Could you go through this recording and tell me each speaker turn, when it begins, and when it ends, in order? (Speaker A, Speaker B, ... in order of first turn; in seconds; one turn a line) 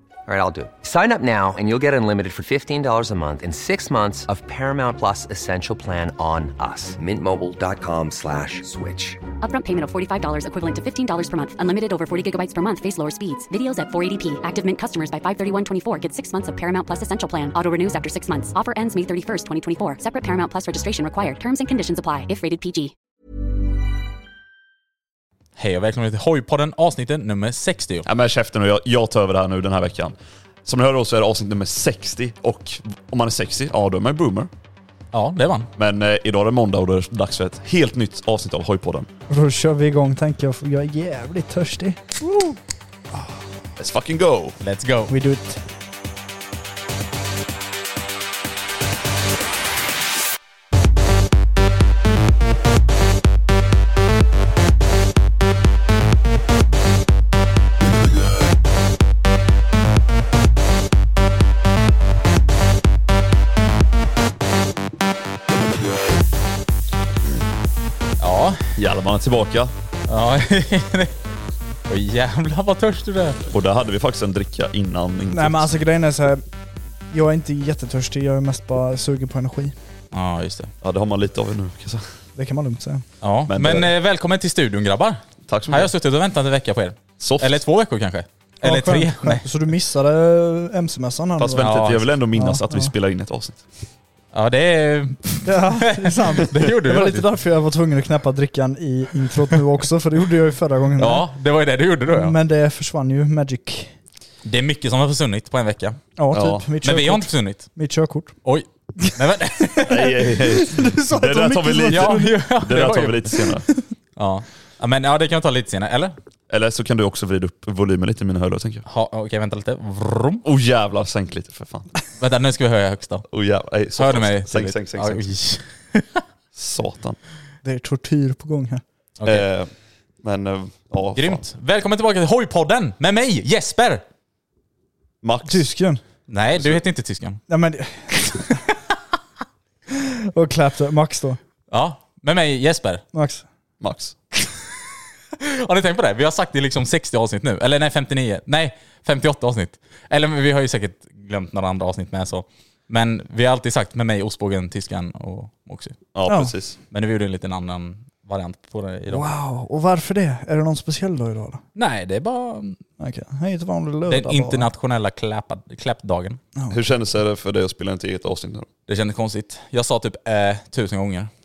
Speaker A: 0.3-9.2
Speaker B: 9.4-22.9
Speaker C: 25.6-28.1
Speaker D: 28.0-34.5
Speaker C: 35.1-35.7
Speaker D: 35.8-39.1
Speaker E: 39.3-42.0
Speaker D: 43.8-44.6
Speaker C: 44.6-45.1
Speaker E: 45.1-45.6
Speaker C: 68.2-68.6
Speaker D: 68.8-69.7
Speaker C: 70.1-71.1
Speaker C: 71.9-73.4
Speaker D: 73.5-75.7
Speaker E: 75.3-76.4
Speaker E: 77.1-79.7
Speaker C: 80.1-80.7
Speaker D: 80.8-82.0
Speaker E: 82.3-83.0
Speaker C: 83.2-89.4
Speaker D: 83.5-83.9
Speaker D: 85.5-85.9
Speaker D: 87.2-87.6
Speaker E: 88.6-91.8
Speaker D: 91.4-93.6
Speaker C: 91.6-92.1
Speaker E: 92.3-92.9
Speaker C: 94.3-97.2
Speaker E: 95.4-101.2
Speaker C: 101.0-102.4
Speaker E: 102.1-103.9
Speaker C: 104.4-106.0
Speaker E: 106.2-108.3
Speaker D: 106.3-106.7
Speaker C: 106.8-107.7
Speaker C: 108.4-110.1
Speaker D: 109.8-113.6
Speaker E: 110.3-112.4
Speaker C: 111.9-113.5
Speaker C: 114.2-116.1
Speaker D: 116.5-118.8
Speaker C: 118.9-120.4
Speaker D: 120.4-121.9
Speaker C: 122.2-123.2
Speaker D: 123.3-125.3
Speaker C: 124.0-126.2
Speaker D: 126.5-127.2
Speaker E: 127.6-128.8
Speaker C: 129.2-129.4
Speaker D: 129.2-129.7
Speaker D: 130.2-131.4
Speaker C: 131.1-134.0
Speaker D: 135.2-135.7
Speaker E: 135.4-136.0
Speaker C: 136.3-137.4
Speaker D: 136.6-136.8
Speaker E: 137.5-138.6
Speaker E: 140.3-141.4
Speaker C: 141.7-143.0
Speaker E: 143.1-143.4
Speaker D: 143.8-144.2
Speaker C: 145.4-156.0
Speaker D: 156.1-156.8
Speaker E: 156.3-156.5
Speaker C: 156.9-159.3
Speaker E: 159.1-161.6
Speaker C: 161.7-162.8
Speaker E: 163.0-164.7
Speaker C: 164.1-166.4
Speaker D: 166.7-168.7
Speaker C: 168.9-171.3